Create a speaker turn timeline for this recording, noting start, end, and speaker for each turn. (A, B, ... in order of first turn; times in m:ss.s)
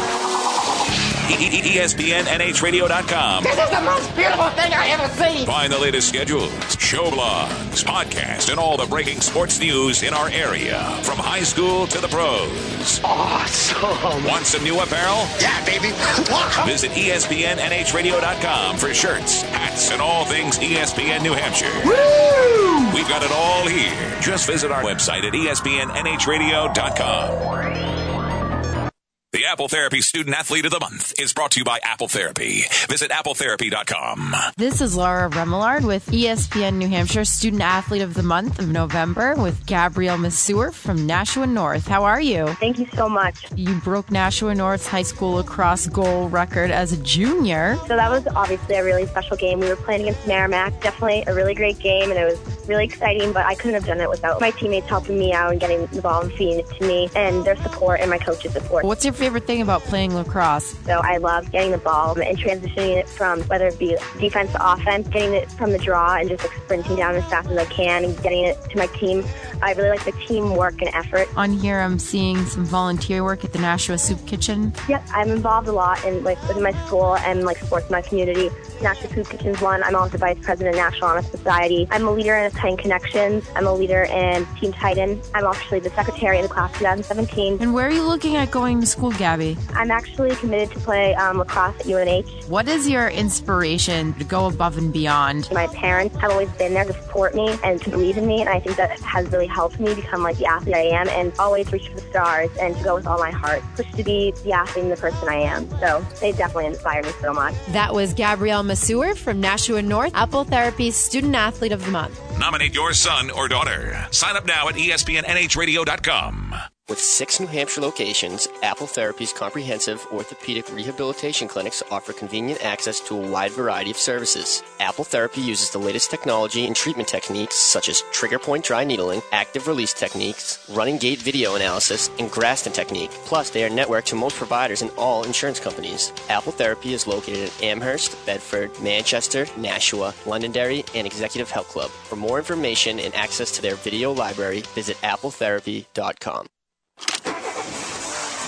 0:01.3-0:03.5 A
0:03.4-0:05.5 B
0:05.4-0:13.0 A
0:13.0-0:14.4 B
0:14.2-0:15.4 A
0:15.4-0:16.7 B
0:16.6-0:22.1 A
0:21.9-0:22.9 B
0:22.9-0:27.4 A
0:29.3-0:34.4 A
0:34.6-0:42.6 C
0:42.6-0:43.5 D
0:43.6-0:47.8 C
0:47.9-0:58.8 D
0:58.8-1:00.7 C
1:00.8-1:11.3 D
1:11.4-1:14.7 C
1:14.9-1:27.6 D
1:27.6-1:29.6 C
1:29.7-1:32.4 D
1:32.5-1:35.5 C
1:35.5-1:47.6 D
1:47.7-1:52.2 C
1:52.3-1:56.6 A
1:56.9-2:26.5 E